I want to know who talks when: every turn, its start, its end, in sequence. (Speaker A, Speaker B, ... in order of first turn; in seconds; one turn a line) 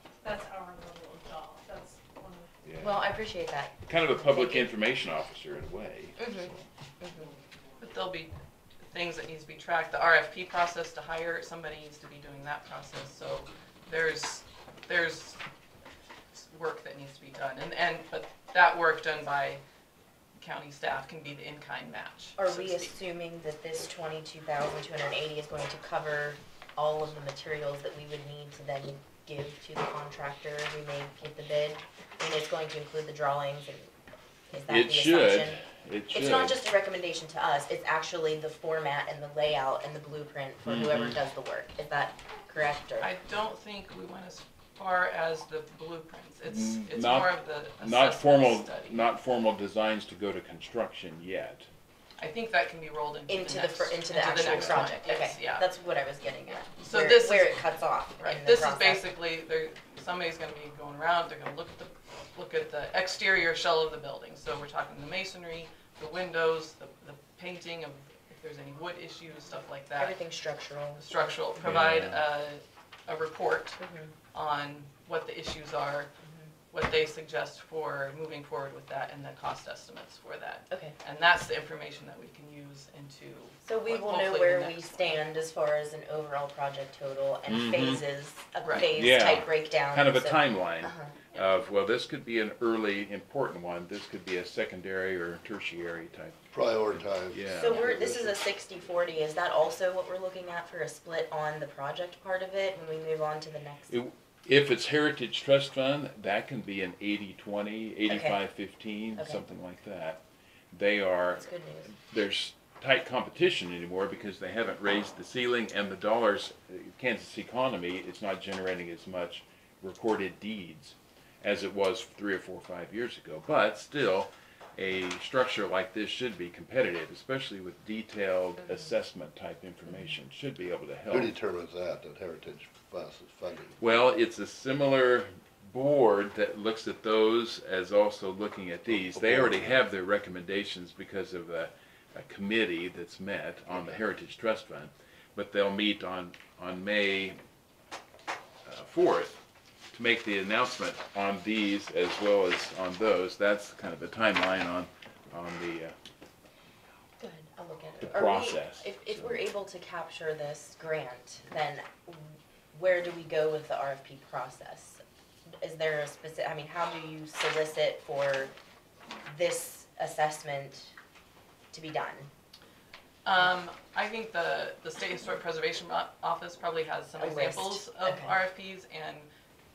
Speaker A: 0.2-2.5
Speaker B: 2.6-3.1
Speaker C: 2.8-4.7
Speaker B: 3.9-6.7
Speaker C: 6.2-7.3
Speaker D: 7.8-8.3
Speaker D: 8.9-15.4
Speaker D: 16.3-19.6
Speaker D: 20.4-22.9
Speaker C: 22.4-33.9
Speaker C: 34.5-43.1
Speaker B: 34.7-36.6
Speaker B: 40.6-41.2
Speaker D: 43.0-49.1
Speaker B: 46.5-51.7
Speaker D: 52.2-55.7
Speaker C: 53.3-59.0
Speaker B: 54.5-54.8
Speaker D: 56.8-57.7
Speaker D: 58.2-70.2
Speaker C: 70.0-71.1
Speaker D: 71.0-73.8
Speaker B: 71.6-72.2
Speaker C: 73.8-74.1
Speaker D: 74.3-76.1
Speaker C: 76.2-76.5
Speaker D: 76.7-85.2
Speaker C: 80.7-80.9
Speaker C: 83.6-91.1
Speaker B: 87.5-88.0
Speaker D: 88.6-88.9
Speaker B: 88.8-97.8
Speaker E: 96.5-98.4
Speaker C: 97.5-104.0
Speaker B: 103.9-110.2
Speaker C: 108.1-108.4
Speaker C: 109.2-109.4
Speaker B: 110.7-131.3
Speaker C: 111.4-111.9
Speaker E: 131.1-133.8
Speaker B: 133.8-147.4
Speaker E: 138.9-139.8
Speaker E: 143.7-143.9
Speaker B: 148.7-149.4
Speaker B: 149.9-155.9
Speaker C: 157.2-165.0
Speaker B: 158.0-159.4
Speaker C: 165.6-168.5
Speaker C: 169.2-170.9
Speaker C: 171.7-172.3
Speaker D: 173.2-179.3
Speaker C: 177.2-178.4